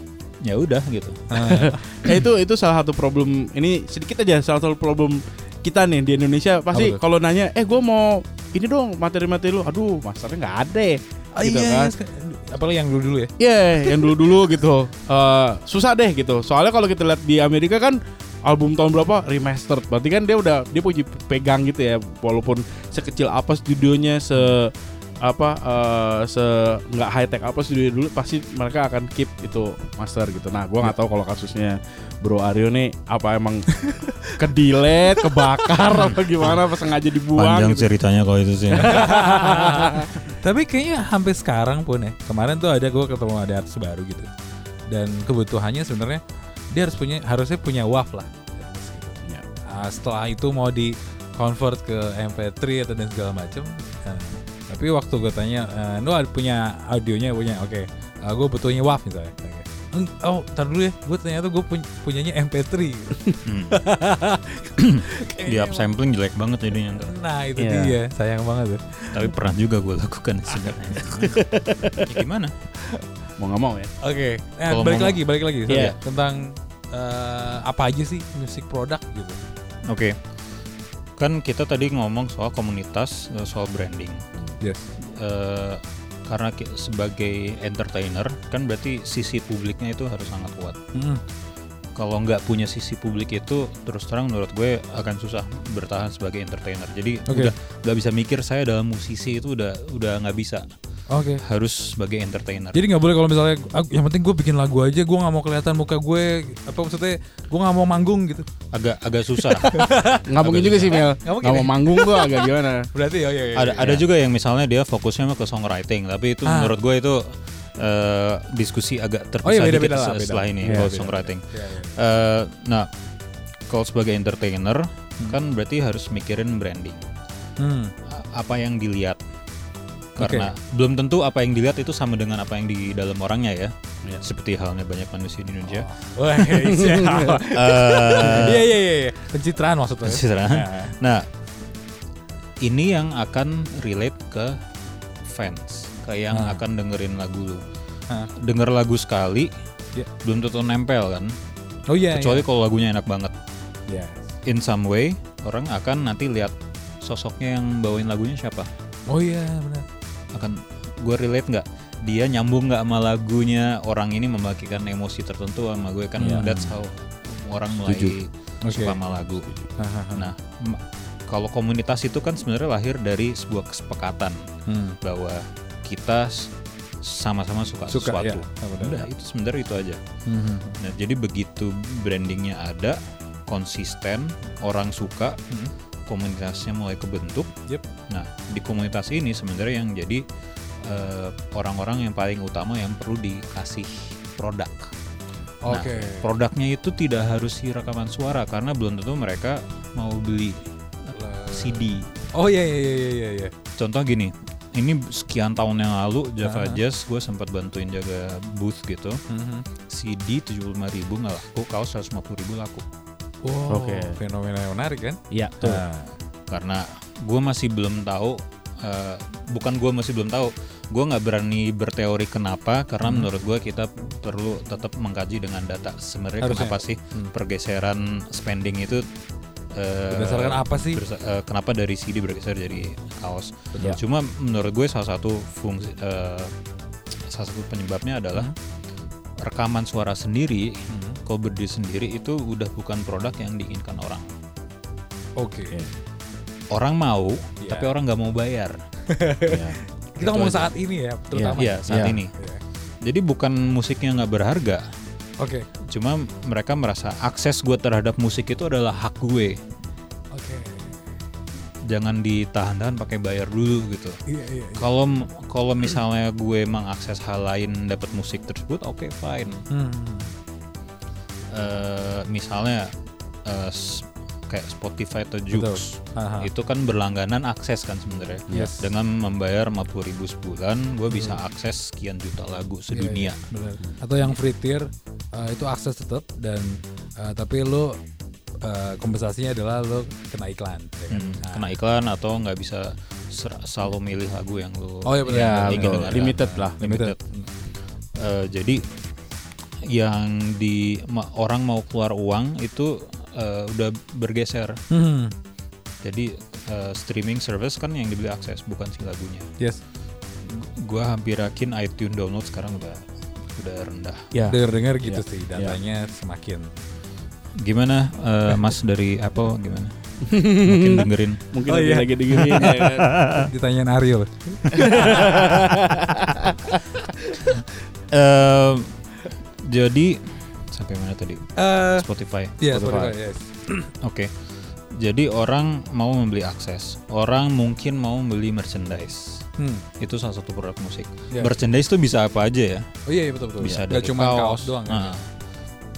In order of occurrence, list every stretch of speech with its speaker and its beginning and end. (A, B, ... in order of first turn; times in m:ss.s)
0:00.4-0:01.6 A
0:01.3-0:01.8 B
0:01.5-0:11.9 C
0:06.7-0:07.0 B
0:11.4-0:13.3 B
0:13.4-0:33.7 C
0:33.8-0:34.4 B
0:34.3-0:37.9 C
0:35.1-0:35.5 B
0:35.9-0:36.6 A
0:37.4-0:39.3 A
0:38.8-0:44.3 B
0:39.1-0:40.1 C
0:44.9-0:46.2 B
0:46.7-1:05.8 B
1:03.4-1:03.8 A
1:04.8-1:07.1 A
1:07.0-1:09.2 B
1:07.6-1:08.0 C
1:09.1-1:11.4 A
1:10.5-1:11.4 B
1:11.4-1:12.1 C
1:12.0-1:12.5 A
1:13.4-1:13.9 C
1:14.0-1:19.4 B
1:14.7-1:16.0 A
1:19.9-1:20.2 A
1:21.2-1:24.2 A
1:24.6-1:24.9 B
1:25.0-1:30.8 A
1:30.9-1:31.2 B
1:32.0-1:40.6 A
1:37.3-1:37.5 B
1:41.1-1:41.4 B
1:41.4-1:42.9 A
1:42.7-1:48.5 B
1:48.7-1:49.9 A
1:49.4-1:50.2 B
1:50.3-1:52.9 C
1:50.4-1:51.0 A
1:50.9-1:52.4 B
1:52.9-1:54.0 B
1:53.6-2:02.9 A
1:56.5-1:56.8 B
1:59.4-2:02.0 B
2:00.6-2:01.0 C
2:03.7-2:07.0 A
2:07.6-2:07.9 B
2:08.1-2:09.2 A
2:10.2-2:15.9 A
2:10.2-2:10.5 B
2:15.7-2:21.0 B
2:16.6-2:17.4 C
2:17.5-2:18.6 A
2:20.0-2:21.3 A
2:22.6-2:24.6 A
2:25.2-2:27.6 A
2:26.3-2:26.6 B
2:28.4-2:29.5 A
2:30.2-2:31.3 A
2:31.9-2:32.4 B
2:32.1-2:33.3 A
2:33.9-2:34.3 B
2:34.4-2:38.7 A
2:39.1-2:39.9 B
2:40.3-2:54.4 A
2:46.2-2:46.7 B
2:46.2-2:46.5 C
2:47.8-2:48.2 C
2:48.6-2:49.0 B
2:49.8-2:50.3 B
2:54.7-2:55.0 B
2:55.0-2:56.5 A
2:57.0-3:00.0 A
2:57.9-2:59.1 B
3:00.3-3:00.8 B
3:00.8-3:05.4 A
3:06.1-3:07.5 A
3:08.1-3:10.2 A
3:10.8-3:14.9 A
3:15.6-3:16.3 B
3:15.7-3:22.1 A
3:21.2-3:23.5 B
3:23.8-3:29.2 A
3:26.4-3:26.8 B
3:29.3-3:29.6 B
3:29.9-3:32.8 A
3:33.4-3:36.1 B
3:33.7-3:34.2 C
3:35.3-3:35.8 C
3:36.5-3:49.1 A
3:43.0-3:43.3 B
3:46.4-3:47.3 B
3:49.7-3:56.5 A
3:50.1-3:51.0 B
3:57.3-3:58.5 A
3:59.4-4:04.3 A
4:00.9-4:01.2 B
4:05.4-4:05.8 B
4:06.7-4:08.8 A
4:07.6-4:07.9 B
4:09.1-4:11.8 B
4:09.5-4:10.7 C
4:11.3-4:12.2 C
4:11.6-4:12.3 A
4:13.0-4:14.8 A
4:15.4-4:15.7 B
4:15.9-4:19.6 A
4:20.3-4:21.0 B
4:21.9-4:24.2 A
4:24.3-4:24.9 B
4:24.8-4:29.6 A
4:29.7-4:30.3 B
4:31.5-4:32.9 A
4:33.4-4:43.4 A
4:35.5-4:36.5 B
4:38.5-4:38.9 B
4:41.1-4:41.4 B
4:42.9-4:48.0 B
4:48.6-4:51.7 B
4:51.1-4:57.2 A
4:55.0-4:57.5 B
4:55.3-4:56.8 C
4:58.2-4:58.8 A
4:59.9-5:04.8 A
5:04.9-5:05.3 B
5:06.0-5:09.5 A
5:10.4-5:14.3 A
5:14.3-5:15.8 C
5:14.5-5:16.8 B
5:17.6-5:21.4 A
5:20.2-5:23.1 C
5:21.7-5:22.8 B
5:22.4-5:23.5 A
5:23.3-5:25.7 B
5:24.7-5:26.7 C
5:28.1-5:33.0 A
5:31.6-5:32.1 B
5:32.6-5:33.9 B
5:32.8-5:33.1 C
5:34.0-5:34.3 A
5:35.0-5:39.5 A
5:39.6-5:39.8 B
5:40.0-5:42.9 A
5:43.1-5:45.2 B
5:43.6-5:45.3 A